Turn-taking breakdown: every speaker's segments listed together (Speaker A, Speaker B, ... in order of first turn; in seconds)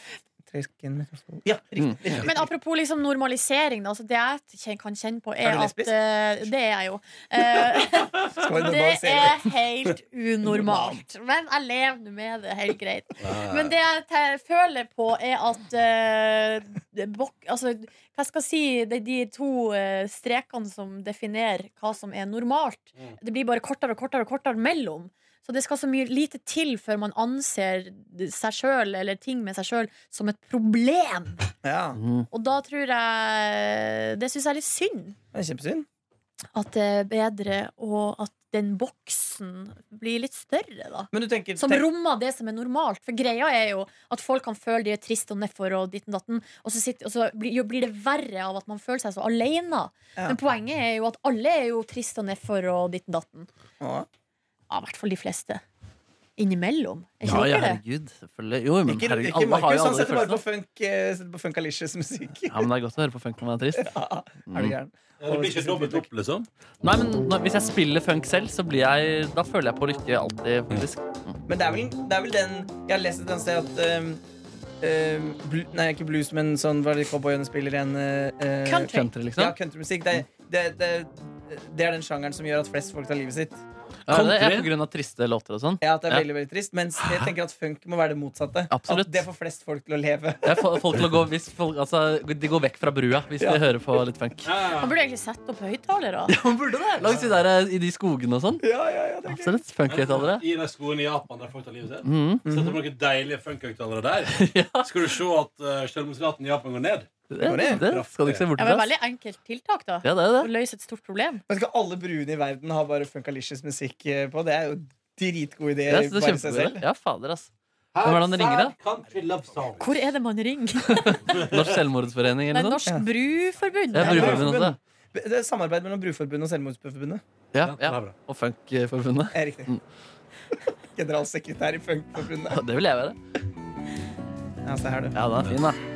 Speaker A: 0.5-2.5, 5.4-6.0, 8.2-9.5, 10.4-11.0, 31.6-32.0, 35.3-35.9, 41.1-41.9, 53.8-54.1, 58.9-62.7, 63.8-66.1, 71.5-74.2, 74.8-83.6, 85.8-91.0, 98.6-99.6, 102.5-102.8, 107.4-107.8, 111.5-116.8, 124.0-127.2, 129.3-129.7, 130.9-132.6, 134.7-135.2
Speaker B: 1.8-2.1, 32.0-32.3, 57.2-60.4, 62.5-64.0, 64.5-64.8, 66.8-71.4, 78.9-79.6, 84.1-86.3, 88.7-89.2, 90.4-94.5, 96.3-98.7, 99.3-100.4, 102.0-102.5, 104.3-104.9, 107.3-108.9, 110.0-110.5, 115.9-117.5, 118.0-118.8, 120.9-122.8, 123.9-124.8, 127.5-129.8, 132.5-133.2, 135.2-135.8
Speaker C: 2.2-31.5, 32.3-35.2, 36.5-53.5, 54.7-55.6, 56.4-57.8, 78.7-79.1, 94.8-96.3, 108.6-111.4, 119.8-121.3, 122.5-124.5
Speaker D: 13.2-13.8, 65.2-66.5, 84.1-84.7, 87.0-87.3, 94.4-95.0, 99.9-108.5, 117.9-120.0, 121.3-121.8, 127.6-128.2